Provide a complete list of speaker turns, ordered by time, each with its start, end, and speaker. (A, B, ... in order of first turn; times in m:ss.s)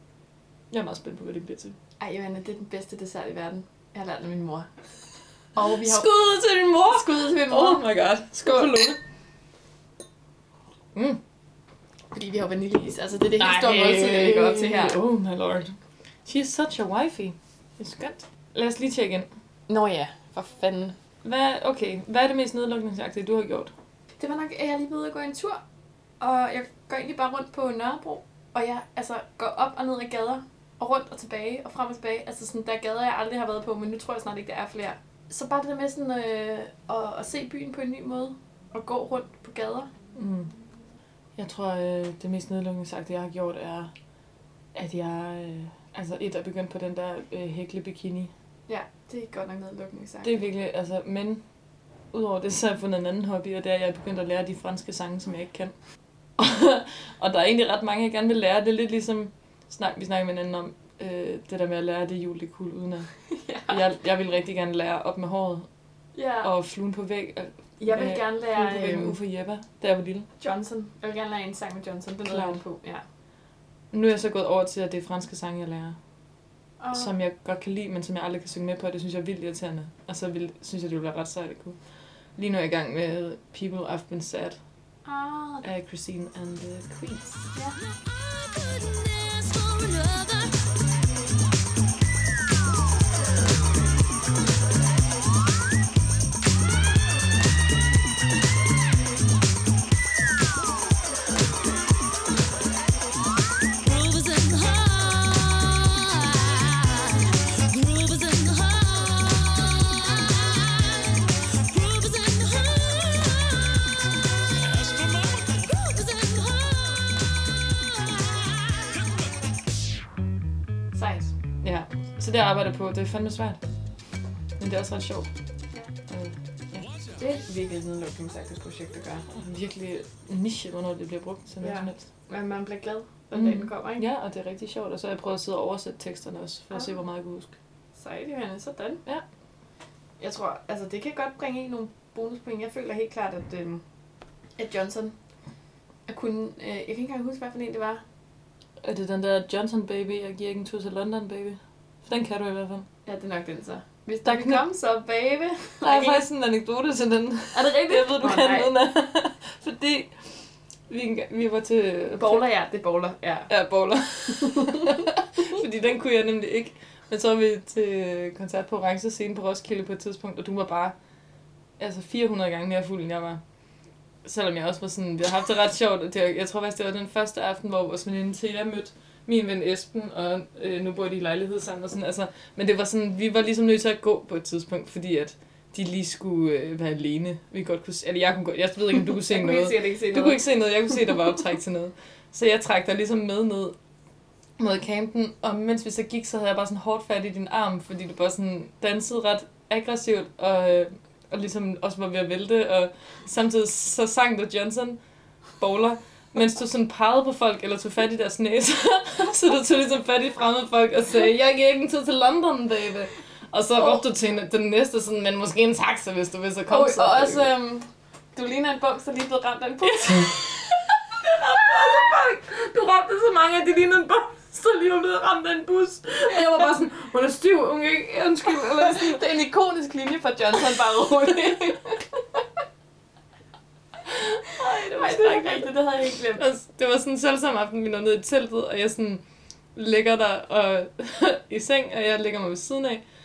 0:00.7-0:01.8 A
0:02.0-0:04.7 B
0:05.6-0:06.2 B
0:05.8-0:09.0 A
0:06.8-0:07.9 B
0:08.4-0:08.7 B
0:10.9-0:11.2 A
0:12.1-0:15.0 B
0:13.4-0:19.3 A
0:19.7-0:21.0 B
0:21.2-0:23.7 A
0:24.2-0:25.6 B
0:26.2-0:39.9 B
0:40.2-0:40.5 A
0:41.4-0:43.9 A
0:44.7-0:48.3 A
0:48.7-0:50.4 B
0:50.2-0:51.4 A
0:52.1-0:55.7 A
0:56.4-1:03.1 A
1:03.3-1:03.8 B
1:03.7-1:05.7 A
1:06.2-1:06.5 B
1:06.4-1:10.3 A
1:07.8-1:09.2 B
1:10.4-1:13.0 B
1:12.3-1:12.6 A
1:13.9-1:16.0 A
1:16.8-1:17.1 B
1:16.9-1:21.8 A
1:22.4-1:24.6 A
1:25.0-1:25.6 B
1:25.6-1:27.5 A
1:27.5-1:27.8 B
1:27.9-1:30.6 C
1:43.8-1:54.0 C
1:55.1-1:59.1 C
2:00.9-2:01.3 B
2:01.6-2:03.6 A
2:04.6-2:05.3 A
2:06.1-2:06.9 A
2:07.2-2:09.3 B
2:09.3-2:12.1 A
2:11.6-2:14.1 B
2:13.3-2:17.5 A
2:18.0-2:19.0 B
2:20.2-2:23.8 B
2:24.6-2:25.2 B
2:26.1-2:28.0 B
2:28.8-2:32.9 A
2:33.1-2:36.2 B
2:34.2-2:34.6 A
2:35.8-2:40.2 A
2:37.5-2:38.7 B
2:40.9-2:42.4 A
2:42.2-2:43.5 B
2:43.5-2:51.0 A
2:44.4-2:44.9 B
2:51.8-2:53.4 A
2:54.2-3:13.8 A
3:09.2-3:10.4 B
3:14.6-3:25.0 A
3:25.6-3:37.5 A
3:36.7-3:40.4 B
3:39.8-3:49.2 A
3:48.7-3:52.0 B
3:54.1-3:55.7 A
3:54.8-3:56.4 B
3:56.4-3:59.2 A
3:59.8-4:03.0 A